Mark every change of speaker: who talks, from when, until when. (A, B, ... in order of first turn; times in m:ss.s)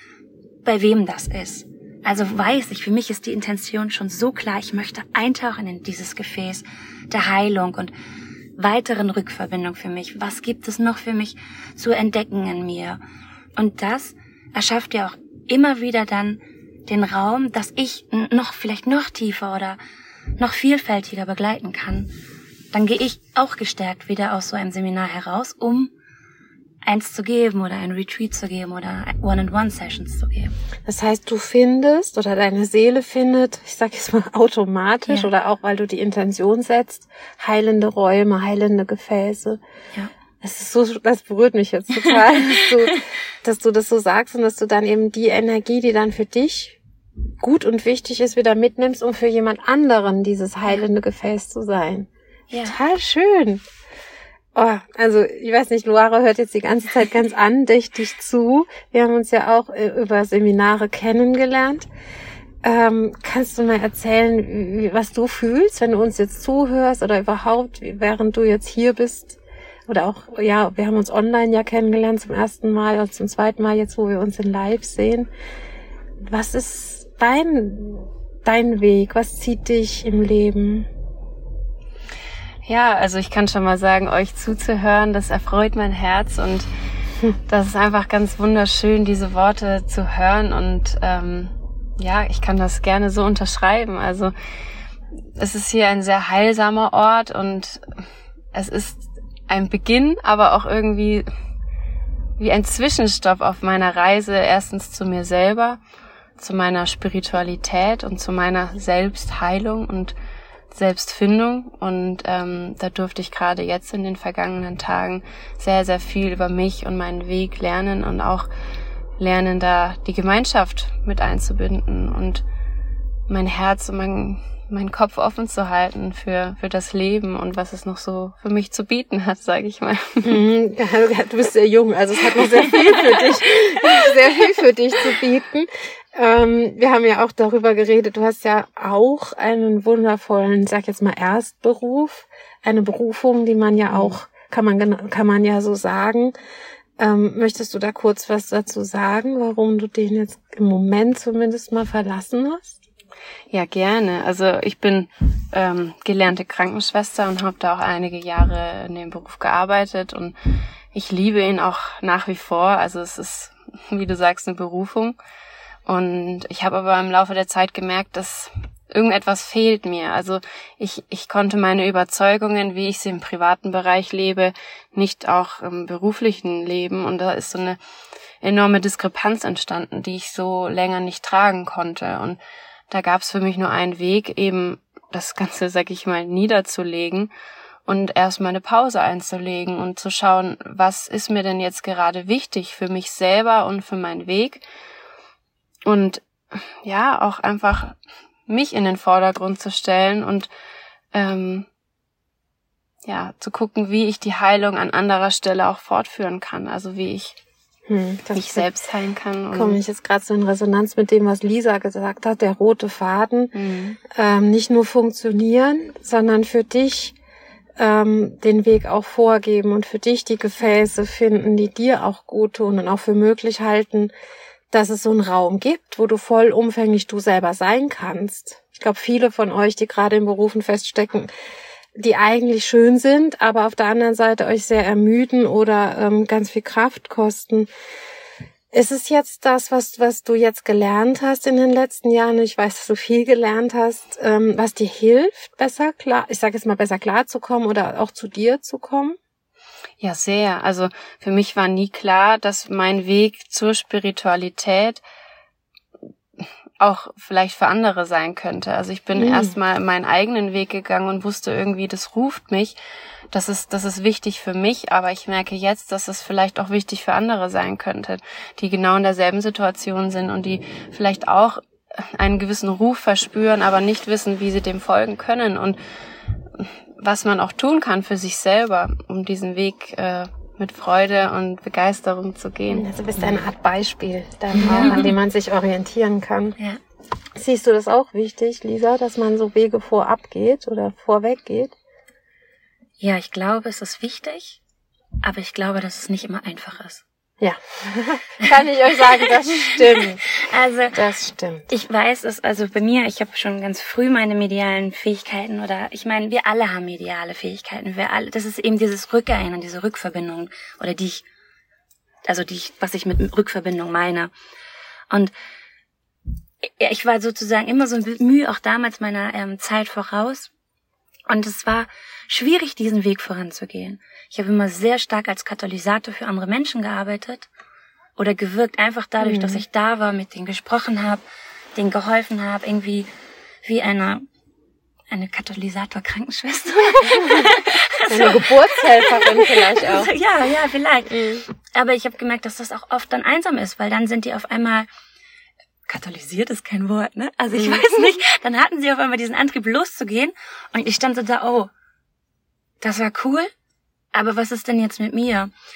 0:00.6-0:07.9 A
0:08.6-0:13.0 A
0:13.6-0:19.8 A
0:20.4-0:22.1 A
0:22.7-0:25.9 A
0:26.8-0:30.5 A
0:30.9-0:39.6 B
0:40.4-0:46.8 B
0:42.0-0:43.0 A
0:47.4-0:52.1 B
0:52.5-0:52.8 A
0:52.6-0:53.6 B
0:54.6-1:01.9 B
1:02.6-1:15.3 B
1:16.2-1:20.9 B
1:22.6-1:26.7 C
1:27.5-1:34.3 C
1:35.4-1:37.8 C
1:38.5-1:41.3 C
1:42.4-1:45.8 C
1:46.4-1:50.2 C
1:50.7-1:58.5 C
1:59.2-2:02.4 C
2:03.3-2:10.4 C
2:10.2-2:26.4 B
2:27.0-2:32.8 B
2:33.5-2:40.4 C
2:40.9-2:45.2 C
2:45.9-2:57.8 C
2:58.4-3:02.4 C
3:02.9-3:07.3 C
3:07.9-3:14.6 C
3:15.8-3:20.5 C
3:21.1-3:21.7 C
3:23.0-3:27.4 C
3:27.9-3:28.7 B
3:28.4-3:29.8 C
3:29.5-3:33.5 B
3:33.6-3:34.0 C
3:34.1-3:37.2 B
3:37.8-3:44.1 B
3:44.7-3:51.3 B
3:52.0-3:57.7 B
3:58.7-4:09.2 B
4:10.0-4:15.0 C
4:16.4-4:22.8 C
4:19.2-4:19.5 B
4:23.3-4:35.8 C
4:36.6-4:42.9 C
4:42.7-4:46.6 B
4:44.6-4:45.1 A
4:44.6-4:45.0 C
4:47.4-4:51.8 B
4:53.0-4:54.6 A
4:55.2-4:57.0 A
4:57.4-5:00.2 B
4:59.5-5:01.0 A
5:00.9-5:01.7 B
5:01.7-5:11.2 A
5:12.2-5:14.3 A
5:16.8-5:20.5 A
5:21.3-5:27.5 A
5:28.2-5:31.2 A
5:29.2-5:29.6 B
5:31.8-5:33.1 A
5:33.6-5:34.2 A
5:35.1-5:44.9 A
5:37.1-5:40.1 B
5:41.2-5:41.4 B
5:45.9-5:51.7 A
5:52.8-5:53.5 A
5:54.1-5:55.5 A